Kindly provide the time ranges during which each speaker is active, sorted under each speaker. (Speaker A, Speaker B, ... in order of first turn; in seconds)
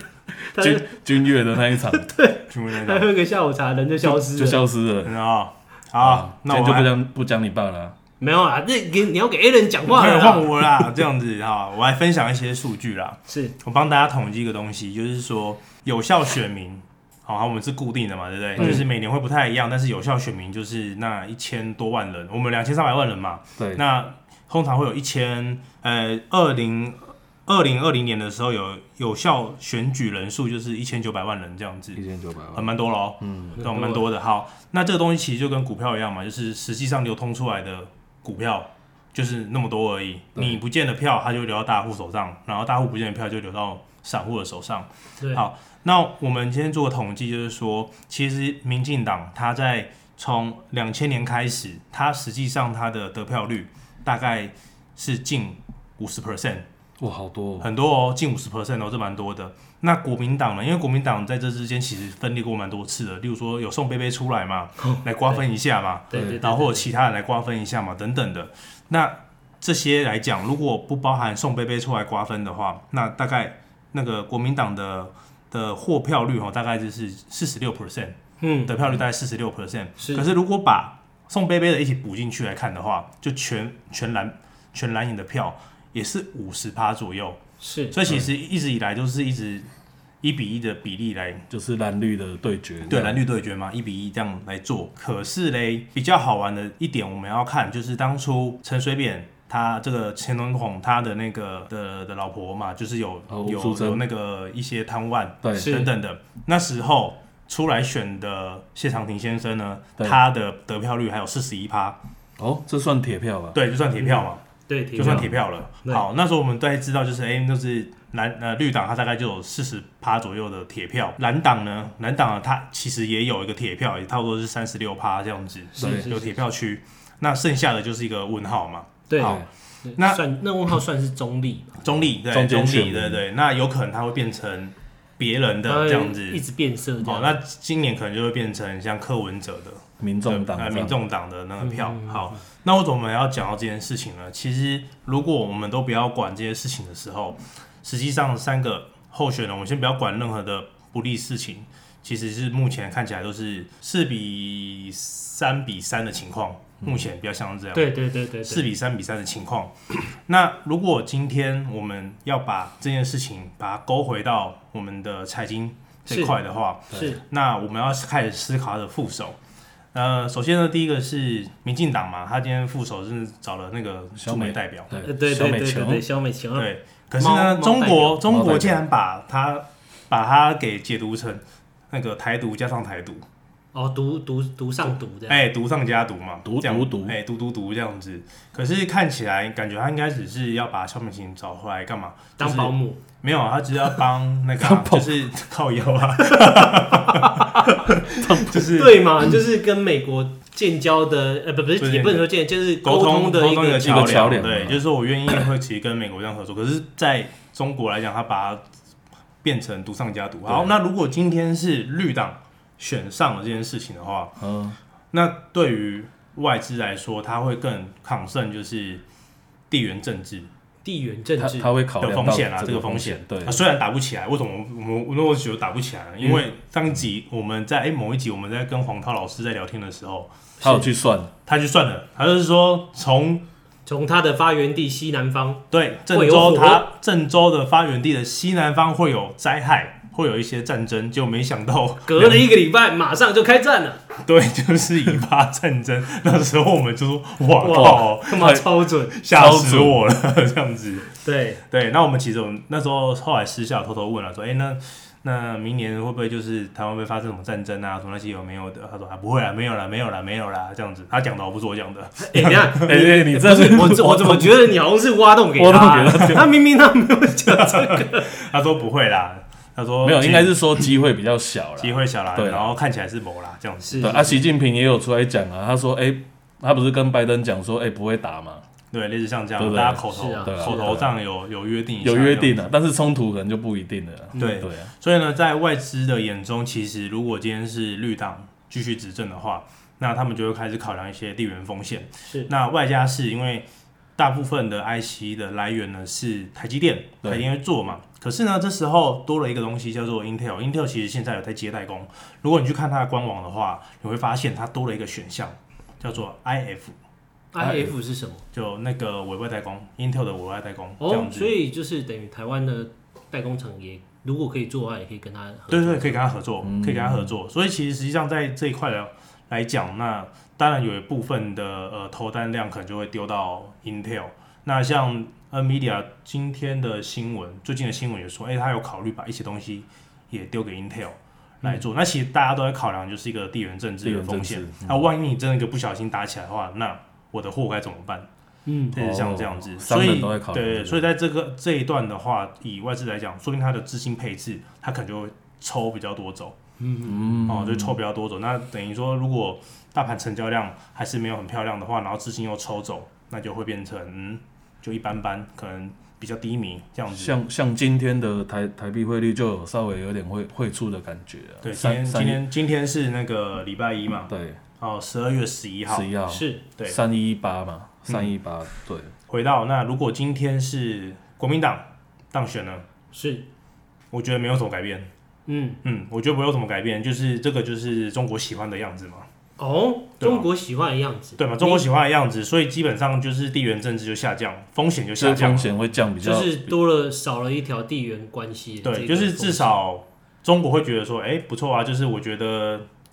Speaker A: 0.5-1.0, 1.7-4.6, 8.2-10.7, 13.3-13.6, 18.6-18.9, 33.6-34.1, 64.8-65.4, 66.1-66.9, 78.4-78.7, 80.0-80.3, 87.6-88.0, 105.5-105.9, 114.0-115.3, 125.8-126.3, 129.1-132.0, 135.7-137.4, 141.6-142.4, 157.7-158.7, 166.1-166.4, 166.9-167.2, 175.0-178.2, 183.7-185.4, 192.4-193.0, 196.4-197.7, 198.7-204.3, 220.8-221.7, 230.6-230.9, 233.9-236.9, 242.1-244.0, 247.6-249.2, 251.2-251.6, 262.2-268.3, 273.8-274.4, 280.1-281.0, 307.5-308.4, 311.0-316.2, 338.7-339.0, 346.8-347.4, 366.3-366.6, 373.1-373.5, 375.5-375.8, 379.6-381.9, 386.2-389.8
Speaker B: 0.5-2.1, 4.0-5.2, 6.0-8.0, 18.6-18.9, 32.0-33.6, 57.0-57.7, 66.1-66.4, 91.5-93.2, 103.3-104.0, 105.4-105.7, 112.4-113.6, 115.0-115.3, 125.8-126.1, 129.2-129.5, 132.3-133.2, 140.0-141.0, 174.2-176.1, 178.2-178.8, 186.4-187.2, 194.6-195.2, 198.1-198.7, 203.8-204.8, 210.5-210.7, 214.4-214.8, 221.4-223.7, 230.6-231.3, 247.7-248.6, 249.3-250.0, 262.6-264.6, 265.6-266.5, 270.0-272.7, 274.0-278.6, 279.6-281.1, 282.0-284.9, 307.6-307.9, 316.6-317.3, 334.0-335.1, 338.9-341.1, 347.0-348.0, 357.1-362.4, 364.3-364.6, 365.9-369.1, 385.2-386.7
Speaker C: 2.5-3.1, 5.0-6.9, 9.9-32.0, 32.5-56.7, 57.6-87.4, 87.9-89.7, 90.2-91.5, 92.9-112.0, 113.5-114.4, 115.0-129.4, 130.0-130.2, 131.8-136.4, 137.0-169.4, 169.9-174.9, 176.6-183.2, 185.3-199.1, 201.8-208.6, 209.4-214.4, 215.1-219.0, 219.7-220.5, 222.0-230.3, 231.5-233.4, 235.7-242.5, 244.2-251.2, 251.7-263.1, 267.5-270.9, 271.8-274.3, 278.9-282.6, 284.4-307.0, 308.5-311.6, 315.7-338.3, 338.9-346.6, 347.4-357.4, 361.6-366.1, 369.3-372.9, 374.1-375.1, 375.8-379.3, 380.2-380.5, 381.4-385.7, 388.8-392.9